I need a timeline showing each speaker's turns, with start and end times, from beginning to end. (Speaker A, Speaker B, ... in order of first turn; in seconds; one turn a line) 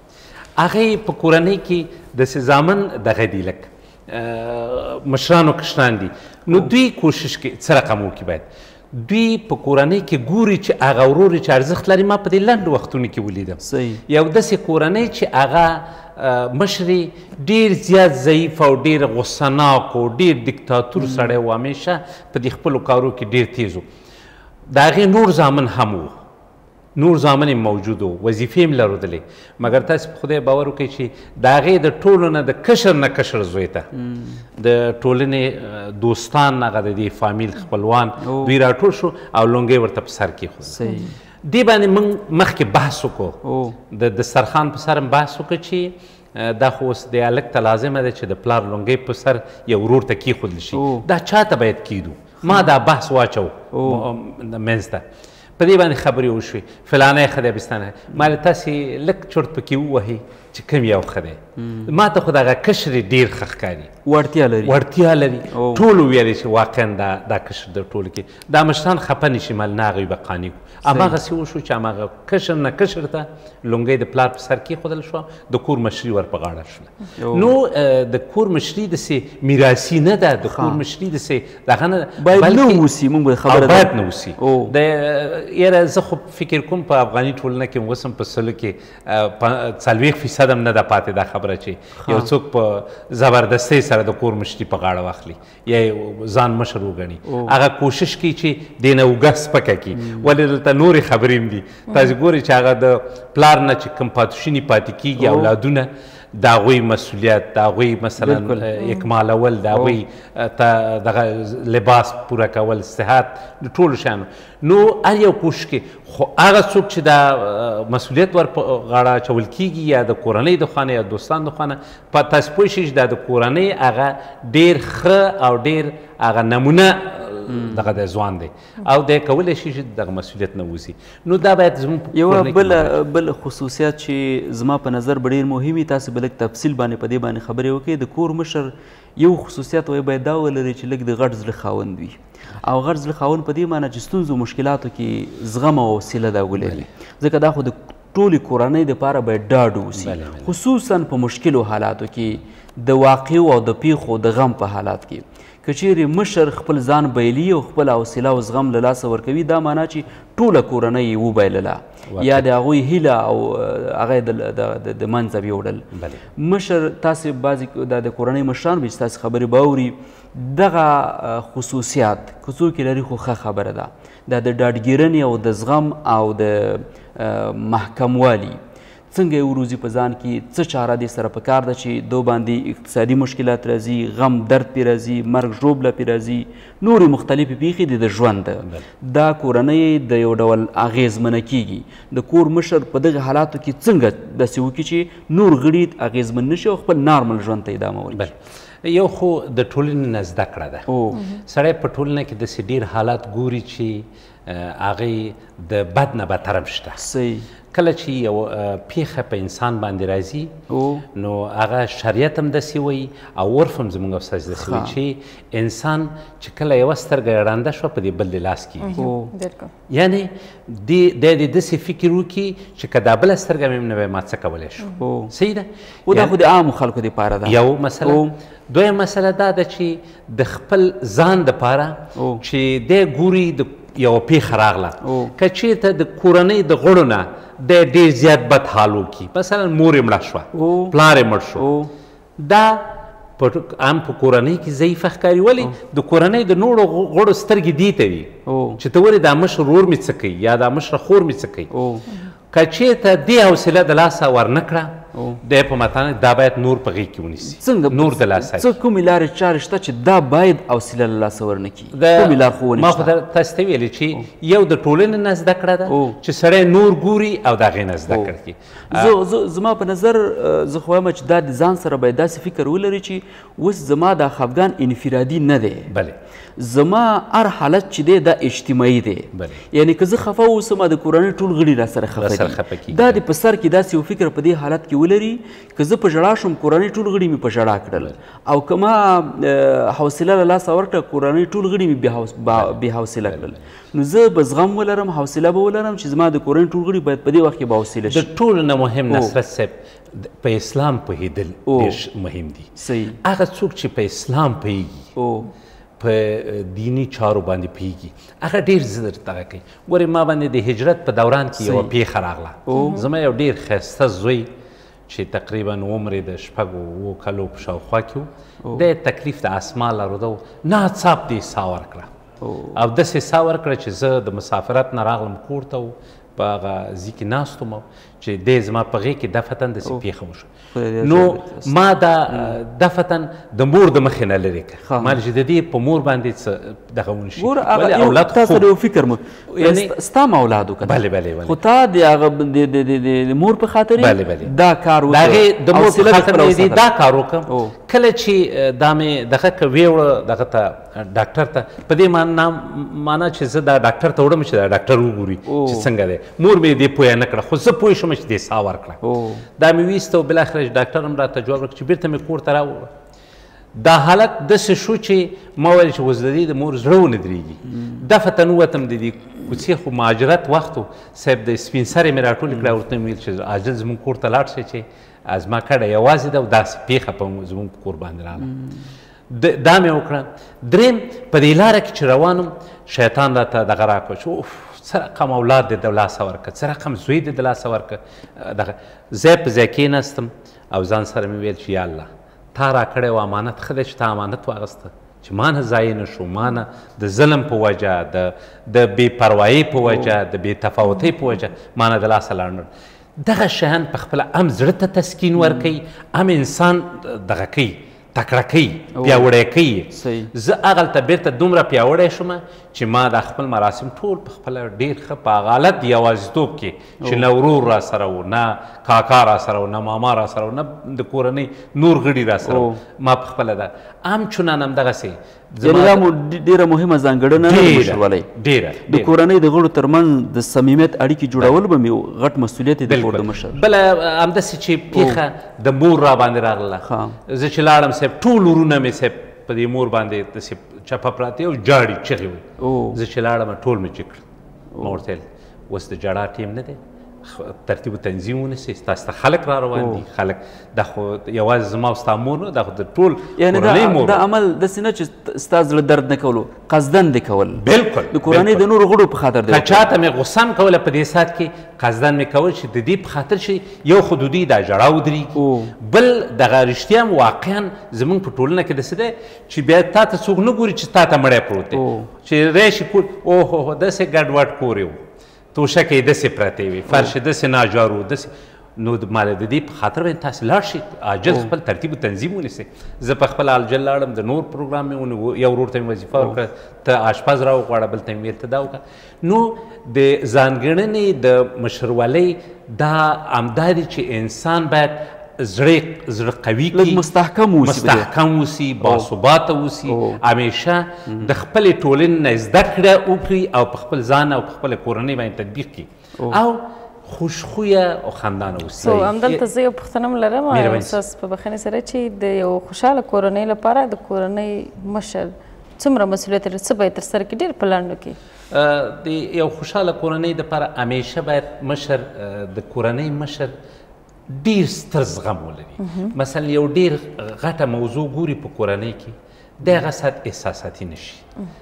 Speaker A: 0.6-23.9
Speaker B: 13.6-14.0
Speaker B: 21.0-21.3
Speaker A: 24.7-26.2
Speaker A: 26.9-33.9
Speaker B: 33.9-34.4
Speaker A: 34.6-40.8
Speaker B: 38.2-38.5
Speaker B: 40.7-41.1
Speaker A: 41.4-43.4
Speaker B: 43.4-43.8
Speaker A: 43.9-55.0
Speaker B: 50.7-51.1
Speaker B: 52.4-52.7
Speaker B: 53.7-54.1
Speaker A: 55.6-63.9
Speaker B: 61.6-61.9
Speaker B: 64.0-64.8
Speaker A: 64.6-82.8
Speaker B: 65.5-65.8
Speaker B: 70.9-71.2
Speaker B: 77.2-77.5
Speaker B: 80.5-80.8
Speaker B: 82.2-84.7
Speaker A: 83.5-132.9
Speaker B: 92.0-92.3
Speaker B: 97.2-97.5
Speaker B: 99.9-100.3
Speaker B: 105.2-105.5
Speaker B: 108.2-108.7
Speaker B: 109.7-110.0
Speaker B: 127.5-127.9
Speaker B: 132.1-178.6
Speaker A: 146.6-146.9
Speaker A: 149.9-150.5
Speaker A: 162.1-162.5
Speaker A: 165.9-166.2
Speaker B: 179.1-198.3
Speaker A: 198.1-207.0
Speaker B: 200.9-201.2
Speaker B: 207.0-207.5
Speaker A: 207.7-210.6
Speaker B: 210.7-211.0
Speaker A: 211.1-219.0
Speaker B: 214.6-214.9
Speaker C: 218.8-219.7
Speaker B: 219.0-219.3
Speaker A: 219.9-226.4
Speaker B: 225.0-225.3
Speaker B: 226.1-228.3
Speaker A: 227.4-241.7
Speaker B: 232.2-232.4
Speaker B: 235.0-235.3
Speaker B: 240.5-241.0
Speaker B: 241.6-241.9
Speaker A: 242.4-251.7
Speaker B: 248.4-248.8
Speaker B: 251.7-252.1
Speaker A: 252.5-258.7
Speaker B: 255.1-255.4
Speaker B: 257.5-263.1
Speaker A: 261.9-269.1
Speaker B: 265.9-266.2
Speaker B: 268.9-275.9
Speaker A: 275.9-276.2
Speaker B: 276.6-298.3
Speaker A: 279.3-279.6
Speaker A: 282.1-283.2
Speaker A: 292.5-293.6
Speaker A: 298.1-302.7
Speaker B: 301.7-302.0
Speaker B: 302.8-303.2
Speaker A: 303.2-305.1
Speaker B: 305.1-305.5
Speaker A: 306.0-314.5
Speaker B: 311.6-311.9
Speaker B: 312.7-313.0
Speaker C: 312.7-313.0
Speaker A: 315.1-322.1
Speaker B: 322.4-322.8
Speaker A: 322.7-338.7
Speaker B: 330.7-331.7
Speaker B: 332.3-332.6
Speaker B: 334.9-335.2
Speaker B: 337.4-346.8
Speaker A: 339.5-339.9
Speaker A: 340.8-341.6
Speaker A: 344.0-344.5
Speaker A: 345.1-359.0
Speaker B: 347.5-347.7
Speaker B: 355.5-355.9
Speaker B: 359.0-359.5
Speaker A: 359.6-362.9
Speaker A: 363.7-378.5
Speaker B: 367.7-368.0
Speaker B: 378.4-378.8
Speaker A: 379.3-402.7
Speaker B: 399.9-400.1
Speaker A: 403.2-426.1
Speaker B: 405.4-405.7
Speaker B: 408.9-409.3
Speaker B: 409.9-410.3
Speaker B: 422.4-422.8
Speaker B: 425.6-428.3
Speaker A: 427.4-429.1
Speaker B: 428.9-433.6
Speaker A: 432.9-444.2
Speaker B: 434.9-435.2
Speaker B: 436.8-437.2
Speaker B: 442.6-443.0
Speaker B: 444.7-445.0
Speaker A: 444.8-454.2
Speaker B: 449.7-450.0
Speaker B: 453.4-459.8
Speaker A: 457.6-458.7
Speaker A: 459.5-475.0
Speaker B: 465.3-465.7
Speaker B: 471.7-472.1
Speaker A: 475.5-497.1
Speaker B: 476.9-477.1
Speaker B: 496.7-498.1
Speaker A: 497.6-509.4
Speaker B: 499.9-500.2
Speaker C: 508.8-518.2
Speaker A: 510.5-511.0
Speaker A: 518.5-523.5
Speaker A: 524.3-531.2
Speaker C: 525.8-526.1